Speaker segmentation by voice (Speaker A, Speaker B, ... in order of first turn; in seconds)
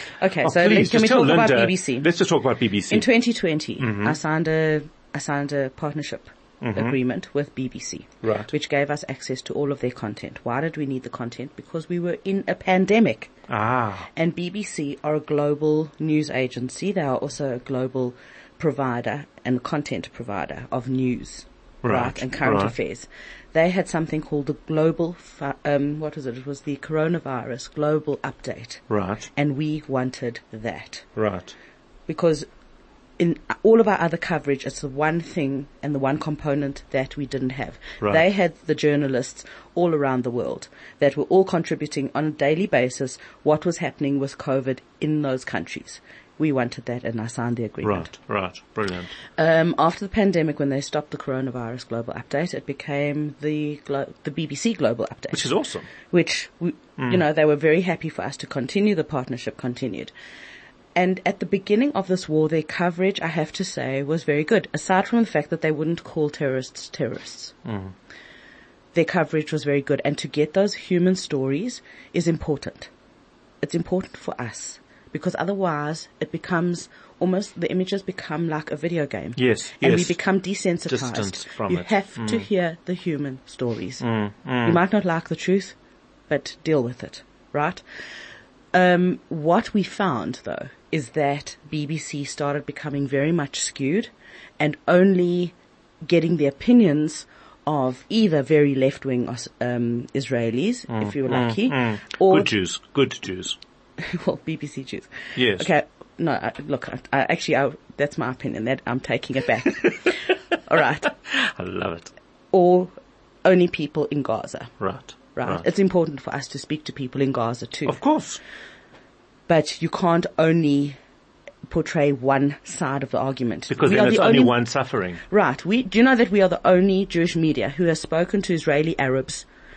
Speaker A: 0.2-2.1, 2.9-13.3, 14.1-31.0, 32.1-32.5, 33.2-48.1, 49.4-55.5, 56.1-60.1, 60.9-67.5, 68.9-72.9, 73.6-84.0, 84.6-85.7, 86.3-87.8, 88.7-102.5, 104.0-111.2, 112.5-112.9, 113.4-114.7, 115.3-118.0, 119.5-121.0, 121.7-124.7, 125.3-129.4
Speaker B: 0.4-3.1, 3.8-4.2, 6.6-6.9, 8.2-8.5, 13.5-14.1, 21.8-22.7, 28.9-29.2, 31.1-31.6, 47.8-49.1, 55.3-55.9, 67.6-67.9, 79.3-80.2, 80.9-82.5, 84.0-84.8, 100.9-103.6, 105.3-105.7, 111.3-112.1, 114.8-115.6, 117.8-118.4, 123.7-125.2